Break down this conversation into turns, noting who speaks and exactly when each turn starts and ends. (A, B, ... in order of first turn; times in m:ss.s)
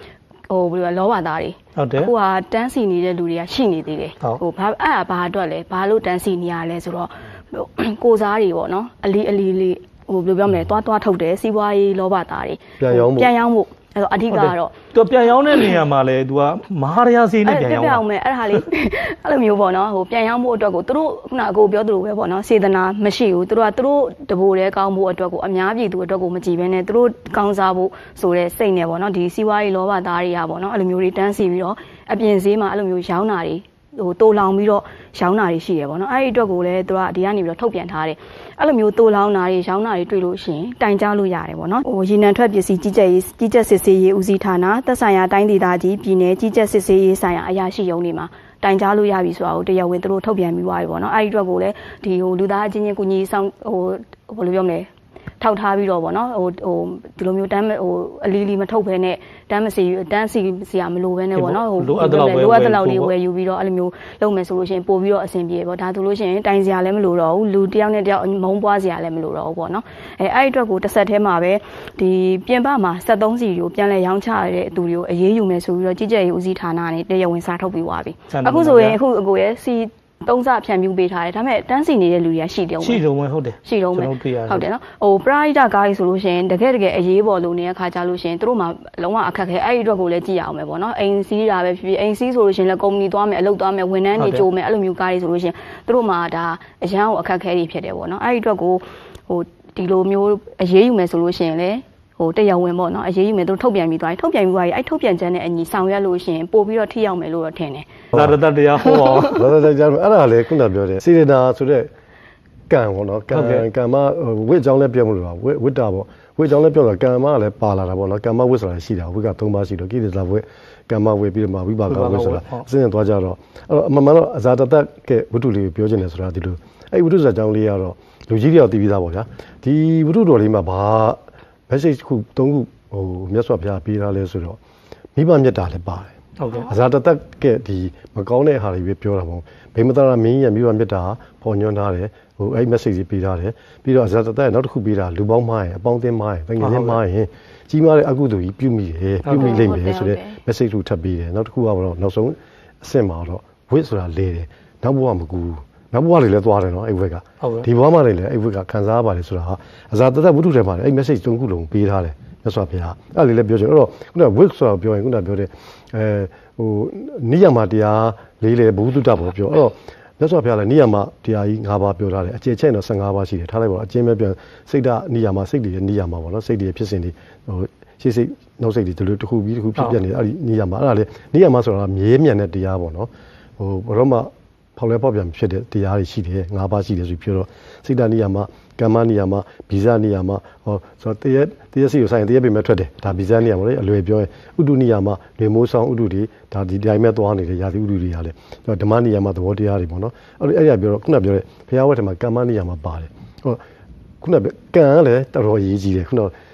0:00.5-0:14.7 A
0:01.8-0:02.1 B
0:12.8-0:13.3 C
0:14.3-0:18.6 B
0:17.4-1:23.0 A
1:01.4-1:03.1 B
1:18.3-1:19.0 B
1:22.8-1:24.6 B
1:23.6-1:47.9 A
1:34.2-1:34.4 B
1:48.1-1:49.4 B
1:48.9-1:49.4 A
1:49.1-1:51.9 C
1:52.7-2:14.6 C
1:53.3-1:53.7 B
2:01.9-2:02.7 B
2:15.2-2:16.1 C
2:16.4-2:16.7 B
2:16.6-3:23.6 C
2:26.6-2:27.0 B
2:29.2-2:29.6 B
2:29.3-2:30.4 A
2:37.4-2:37.7 B
3:24.2-3:26.3 C